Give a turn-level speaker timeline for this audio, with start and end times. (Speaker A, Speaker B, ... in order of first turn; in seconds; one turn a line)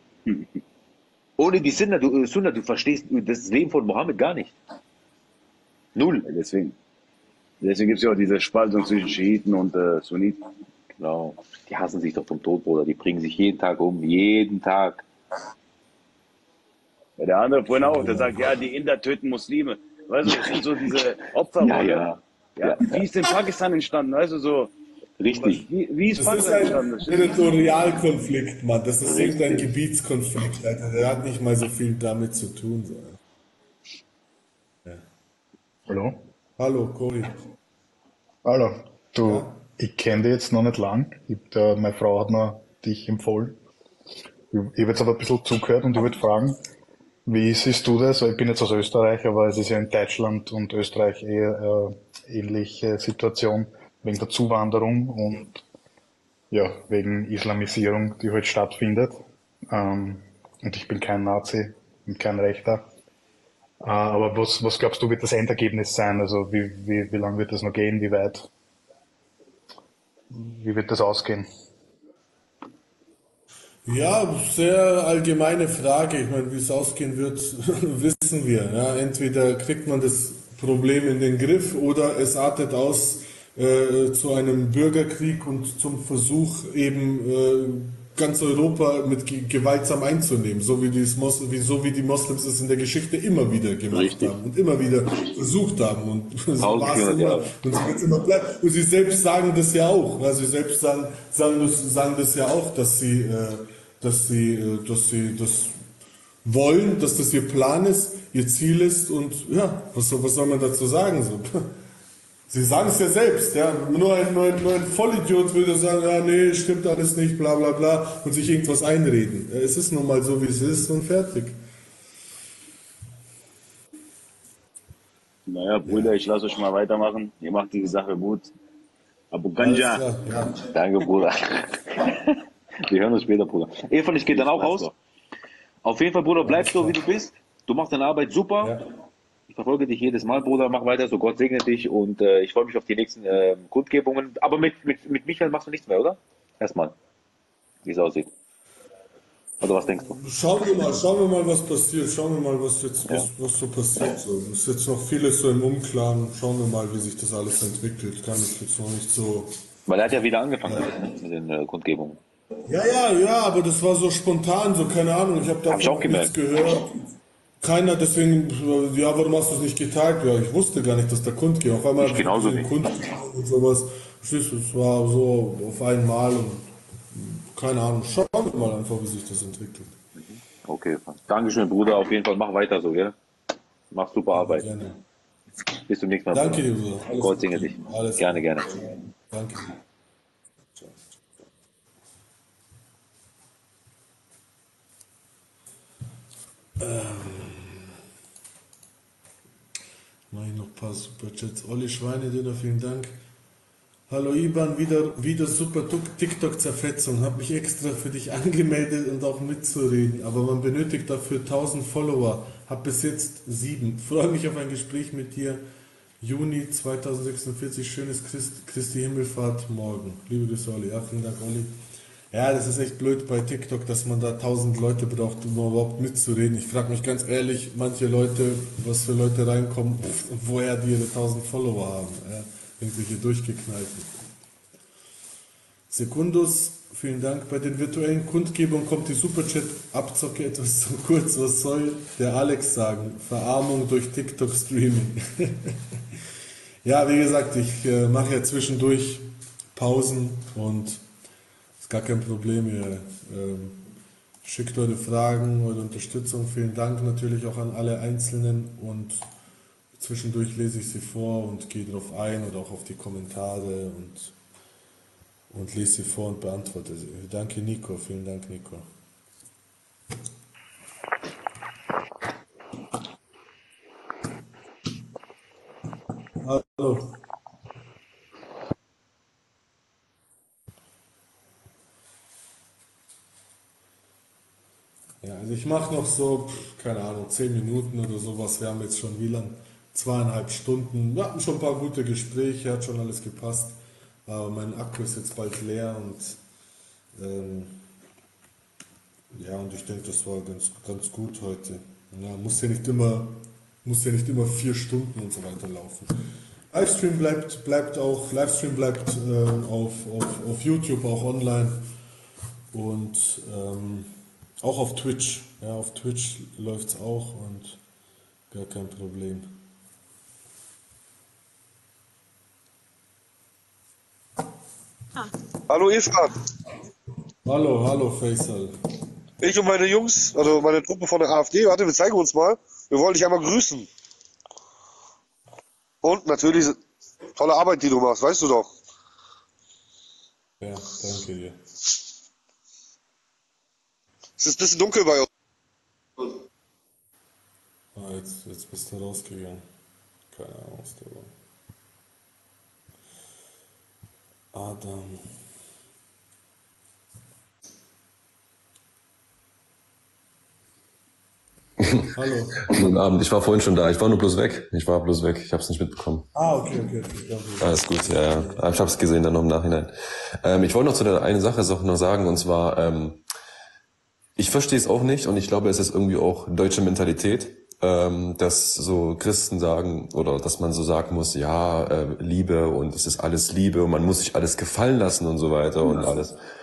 Speaker A: 1.4-4.5
Speaker A: 6.0-6.2
Speaker B: 6.2-6.7
Speaker B: 7.6-10.4
Speaker A: 11.0-15.0
Speaker B: 17.2-24.7
Speaker C: 17.8-18.4
Speaker A: 20.2-20.6
Speaker A: 21.6-23.1
Speaker A: 25.2-25.6
Speaker B: 25.4-27.4
Speaker C: 26.1-33.2
Speaker A: 29.0-29.7
Speaker D: 35.9-36.2
Speaker C: 36.6-37.4
Speaker D: 38.4-43.6
Speaker C: 39.2-39.6
Speaker D: 44.5-46.6
Speaker D: 47.2-55.6
Speaker D: 56.5-62.9
Speaker D: 63.8-68.5
Speaker D: 70.3-71.5
Speaker C: 73.8-105.8
Speaker A: 93.9-94.3
Speaker A: 96.6-97.5
Speaker C: 106.4-111.5
Speaker C: 112.5-121.6
Speaker B: 125.5-128.5
Speaker C: 125.9-126.2
Speaker B: 129.3-130.0
Speaker C: 129.6-130.6
Speaker A: 130.7-132.3
Speaker A: 132.8-134.9
Speaker B: 134.4-134.9
Speaker A: 135.8-138.7
Speaker C: 136.4-137.0
Speaker A: 139.5-146.9
Speaker A: 147.8-148.3
Speaker A: 149.6-150.2
Speaker C: 150.1-159.5
Speaker A: 159.9-162.2
Speaker C: 160.7-160.9
Speaker C: 162.7-166.9
Speaker A: 165.7-166.3
Speaker C: 167.6-180.0
Speaker A: 172.0-172.7
Speaker A: 180.2-183.1
Speaker A: 183.9-184.7
Speaker C: 184.3-185.0
Speaker A: 185.9-188.7
Speaker C: 186.3-189.7
Speaker C: 196.8-197.9
Speaker C: 200.3-203.1
Speaker C: 204.1-215.6
Speaker C: 216.2-221.7
Speaker C: 222.3-234.3
Speaker C: 235.9-245.8
Speaker C: 246.8-251.0
Speaker C: 251.8-253.8
Speaker C: 254.4-259.2
Speaker C: 260.0-264.3
Speaker C: 265.5-268.9
Speaker C: 276.4-277.1
Speaker C: 285.2-293.8
Speaker C: 294.3-296.4
Speaker C: 297.2-297.8
Speaker C: 299.3-306.1
Speaker C: 306.7-311.8
Speaker C: 312.7-317.8
Speaker C: 318.5-319.5
Speaker E: 325.7-326.3
Speaker C: 327.4-328.7
Speaker E: 329.4-333.9
Speaker E: 336.0-336.8
Speaker E: 337.4-338.7
Speaker C: 340.6-341.6
Speaker E: 344.4-345.3
Speaker C: 347.9-349.6
Speaker C: 350.3-351.3
Speaker C: 354.5-355.2
Speaker F: 361.8-366.3
Speaker C: 362.1-362.6
Speaker C: 366.3-368.6
Speaker F: 367.6-373.2
Speaker F: 374.4-386.4